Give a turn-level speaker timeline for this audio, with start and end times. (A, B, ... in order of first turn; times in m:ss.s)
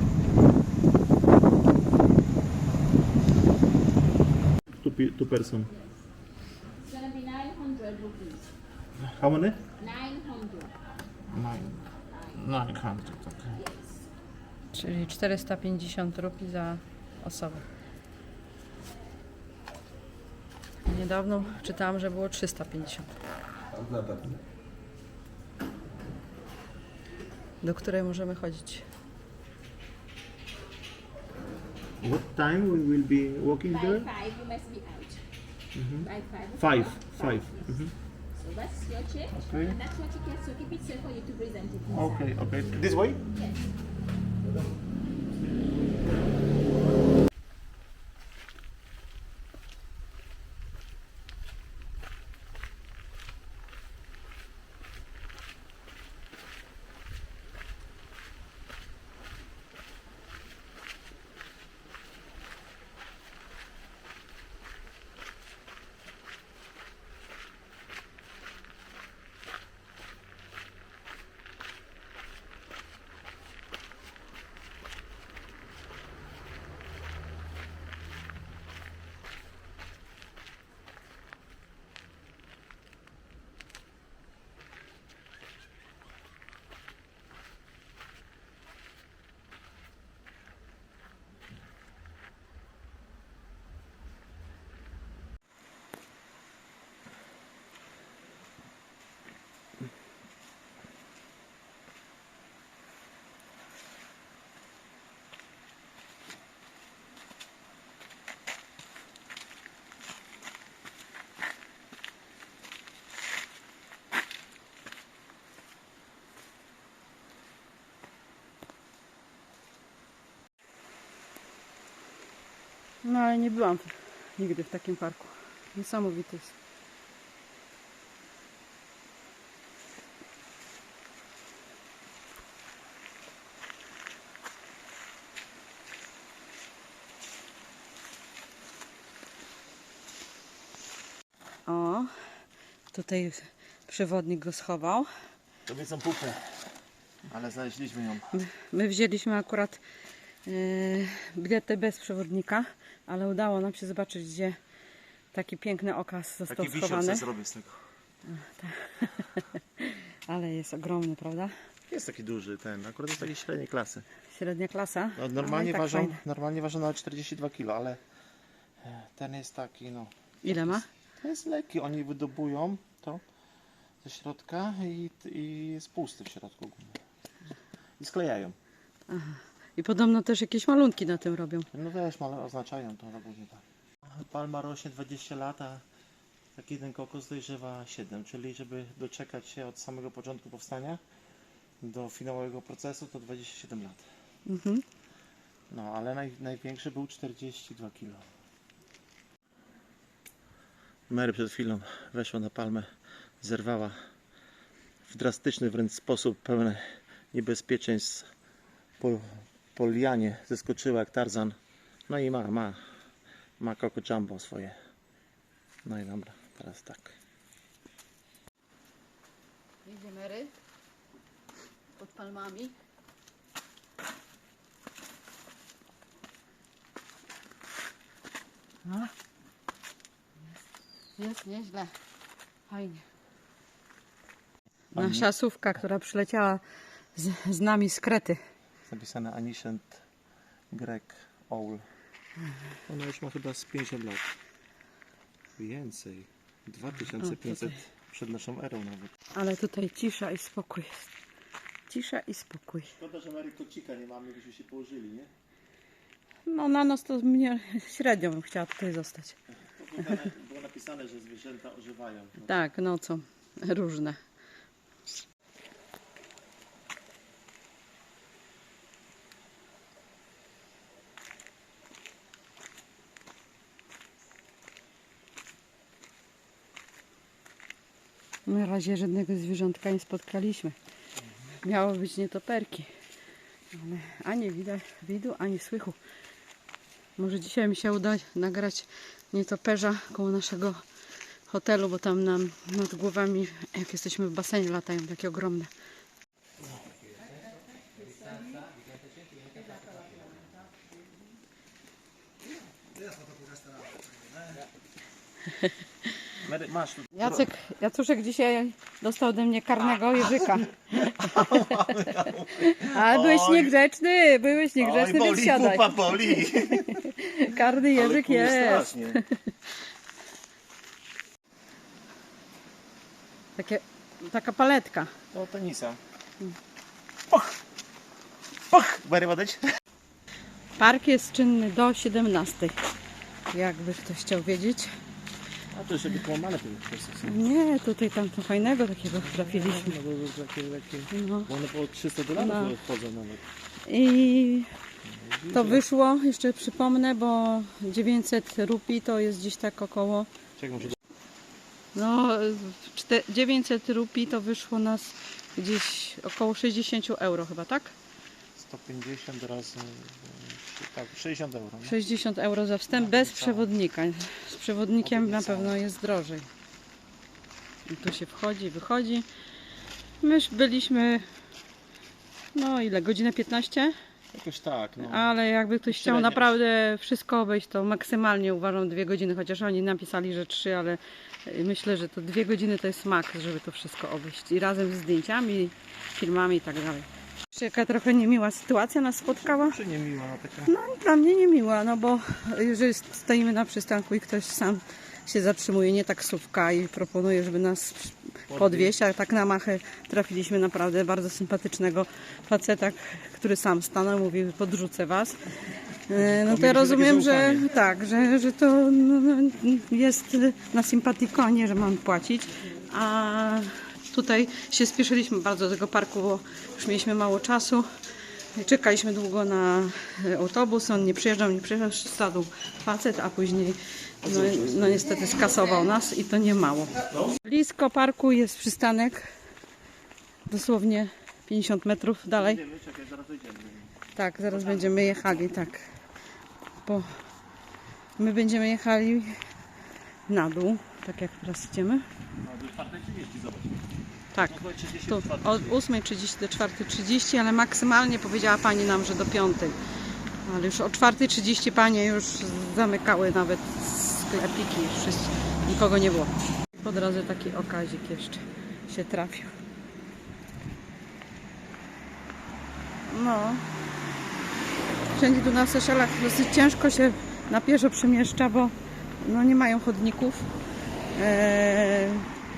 0:04.8-0:05.8 A
0:07.0-0:08.4 B
0:09.0-0:09.7 A
0:10.0-0:10.7 B
0:11.3-0:13.7 A
0:14.7-0:17.6 C
0:20.8-0:23.2 C
0:27.6-0:28.9 C
0:32.0-0:34.3 A
0:34.4-0:35.2 B
0:35.7-0:37.9 A
0:38.6-0:39.2 B
0:39.2-0:39.9 A
0:40.0-0:41.7 B
0:41.8-0:43.2 A
2:03.0-2:06.5 C
2:21.7-2:22.1 C
2:22.9-2:25.1 C
2:25.7-2:26.6 A
2:27.3-2:28.3 A
2:28.3-2:29.8 C
2:30.5-2:34.6 C
2:35.3-2:37.2 C
2:36.5-2:37.8 A
2:38.3-2:41.5 C
2:41.9-2:44.1 A
2:44.3-2:46.2 C
2:45.2-2:48.0 A
2:48.8-2:53.2 A
2:50.4-2:50.9 C
2:54.0-2:57.0 A
2:58.0-2:58.6 A
2:59.1-3:01.7 C
3:01.7-3:05.8 A
3:06.6-3:11.0 A
3:11.8-3:14.0 A
3:14.5-3:14.8 C
3:15.7-3:18.2 A
3:21.1-3:22.9 A
3:23.4-3:24.0 A
3:25.1-3:28.2 A
3:29.0-3:31.6 A
3:32.1-3:32.8 A
3:33.6-3:34.8 A
3:35.8-3:37.2 A
3:39.8-3:40.5 C
3:42.0-3:42.7 C
3:48.8-3:49.1 C
3:51.2-3:51.9 C
3:52.7-3:53.0 C
3:54.9-3:56.6 C
3:55.0-3:55.3 A
3:57.2-3:58.4 C
3:58.9-4:00.0 A
4:00.7-4:01.8 A
4:02.9-4:04.3 A
4:05.6-4:09.1 A
4:07.2-4:07.7 C
4:09.4-4:11.1 C
4:11.9-4:12.9 C
4:13.0-4:15.3 A
4:16.5-4:19.4 C
4:19.6-4:22.6 A
4:22.4-4:24.2 C
4:38.5-4:40.8 C
4:41.6-4:42.9 C
4:43.7-4:46.0 C
4:47.2-4:50.8 C
4:51.5-4:55.7 C
5:06.4-5:07.5 A
5:07.2-5:19.5 C
5:10.4-5:13.7 A
5:14.8-5:17.1 A
5:17.9-5:19.2 A
5:23.6-5:25.1 C
5:25.3-5:26.0 A
5:28.7-5:29.6 A
5:30.8-5:32.8 C
5:33.5-5:34.9 C
5:35.7-5:37.5 A
5:37.2-5:40.0 C
5:39.1-5:43.4 A
5:41.1-5:41.5 C
5:42.4-5:42.7 C
5:43.9-5:44.7 C
5:45.0-5:45.8 A
5:45.5-5:50.3 C
5:50.6-5:51.0 A
5:52.0-5:57.9 C
5:58.6-6:02.0 A
6:01.8-6:06.5 C
6:02.9-6:03.7 A
6:05.0-6:05.8 A
6:07.9-6:09.3 C
6:10.2-6:11.2 C
6:12.5-6:13.9 C
6:14.3-6:15.3 A
6:15.0-6:29.8 C
6:15.9-6:16.5 A
6:29.4-6:30.7 A
6:30.6-6:45.5 C
6:38.5-6:39.0 A
6:46.1-6:57.9 C
6:46.2-6:47.7 A
6:58.6-7:09.3 C
7:04.2-7:05.2 A
7:07.1-7:07.4 A
7:10.5-7:12.6 C
7:12.4-7:15.5 A
7:14.2-7:15.9 C
7:16.8-7:17.1 C
7:18.2-7:19.4 C
7:20.3-7:22.0 C
7:22.4-7:23.8 A
7:24.4-7:25.8 A
7:25.1-7:29.8 C
7:30.4-7:39.5 C
7:43.1-7:43.6 C
7:45.1-7:50.5 C
7:51.2-7:52.3 C